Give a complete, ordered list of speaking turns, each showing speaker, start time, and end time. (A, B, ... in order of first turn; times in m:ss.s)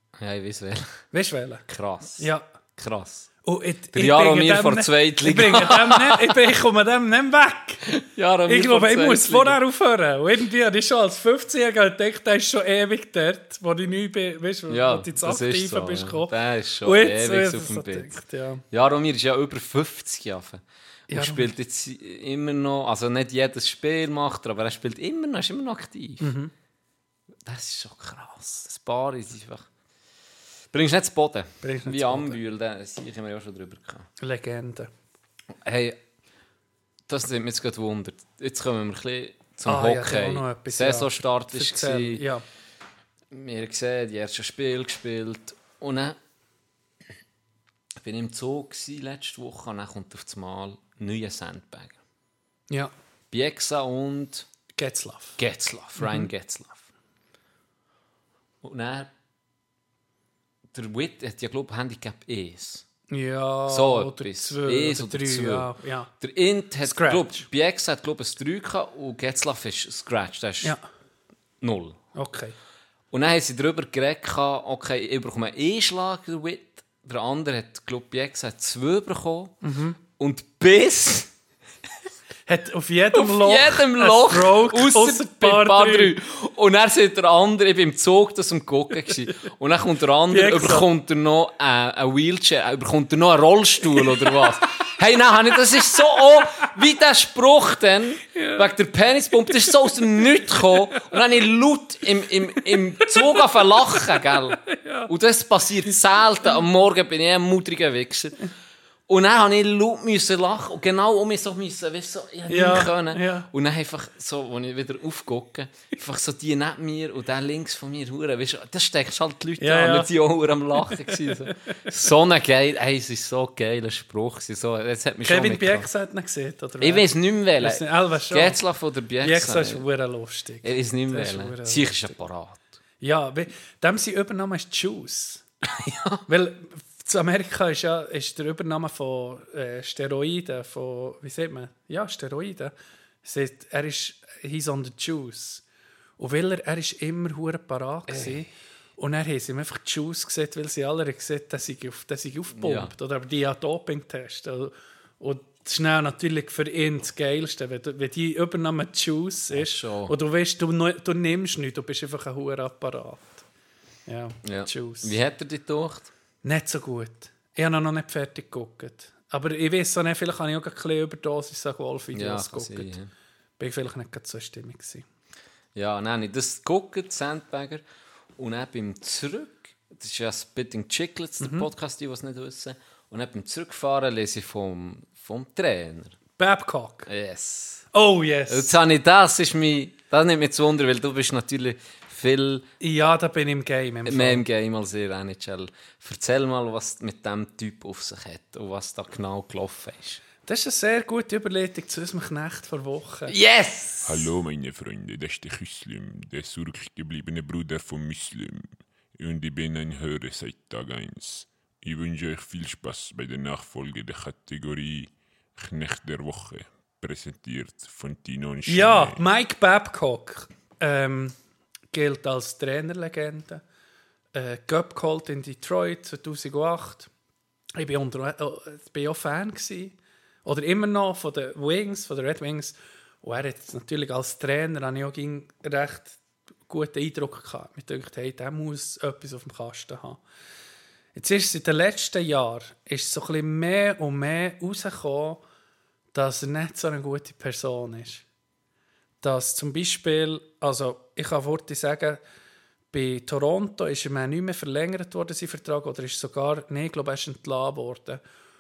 0:00.2-0:01.0 A
0:01.1-0:01.6 B
0:01.7-0:03.3 A
0:02.2-0:02.4 B
0:03.4-0:07.9 B
0:03.9-0:06.5 A
0:07.8-0:09.6 A
0:08.5-0:16.3 B
0:14.7-0:18.1 A
0:16.8-0:18.6 B
0:18.7-0:26.3 A
0:21.1-0:21.5 B
0:26.2-0:26.5 B
0:27.4-0:29.7 A
0:30.7-0:34.1 A
0:31.6-0:32.4 B
0:34.2-0:34.9 B
0:35.5-0:36.0 A
0:37.1-0:42.2 A
0:39.6-0:42.4 B
0:43.3-0:46.2 A
0:48.0-0:52.0 A
0:53.3-0:54.4 A
0:54.7-0:55.4 B
0:55.4-0:56.9 A
0:56.0-0:56.3 B
0:58.6-0:59.1 A
1:00.7-1:02.8 A
1:03.1-1:06.1 B
1:03.7-1:10.8 A
1:06.8-1:07.4 B
1:11.6-1:12.0 A
1:12.1-1:12.5 B
1:13.1-1:19.6 A
1:19.6-1:20.0 B
1:20.1-1:21.3 A
1:22.5-1:26.2 B
1:23.1-1:48.4 A
1:30.3-1:30.8 B
1:38.4-1:38.6 B
1:43.0-1:43.4 B
1:44.6-1:45.1 B
1:45.9-1:46.6 B
1:49.1-2:05.9 A
1:52.5-1:53.5 B
1:59.6-2:00.1 B
2:00.9-2:01.5 B
2:05.2-2:08.6 B
2:06.8-2:09.8 A
2:09.2-2:12.1 B
2:10.6-2:12.6 A
2:13.0-2:15.4 B
2:15.7-2:16.2 A
2:16.2-2:22.7 B
2:23.2-2:25.6 B
2:26.2-2:43.4 B
2:28.1-2:28.4 A
2:32.5-2:32.9 A
2:39.5-2:40.1 A
2:44.1-2:45.1 B
2:44.4-2:46.1 A
2:46.4-2:52.9 B
2:52.1-2:53.1 A
2:53.6-2:55.0 B
2:55.7-2:57.8 A
2:58.4-3:06.2 A
3:01.4-3:01.7 B
3:06.4-3:07.1 B
3:07.1-3:07.9 A
3:07.9-3:08.8 B
3:08.5-3:12.6 A
3:12.8-3:14.4 B
3:14.0-3:20.2 A
3:20.4-3:23.3 B
3:23.3-3:24.3 A
3:24.0-3:39.2 C
3:38.6-3:41.4 B
3:41.9-3:43.6 B
3:44.3-3:47.1 B
3:47.8-4:00.2 B
4:01.1-4:05.4 B
4:06.1-4:08.2 B
4:09.2-4:12.2 B
4:12.9-4:18.2 B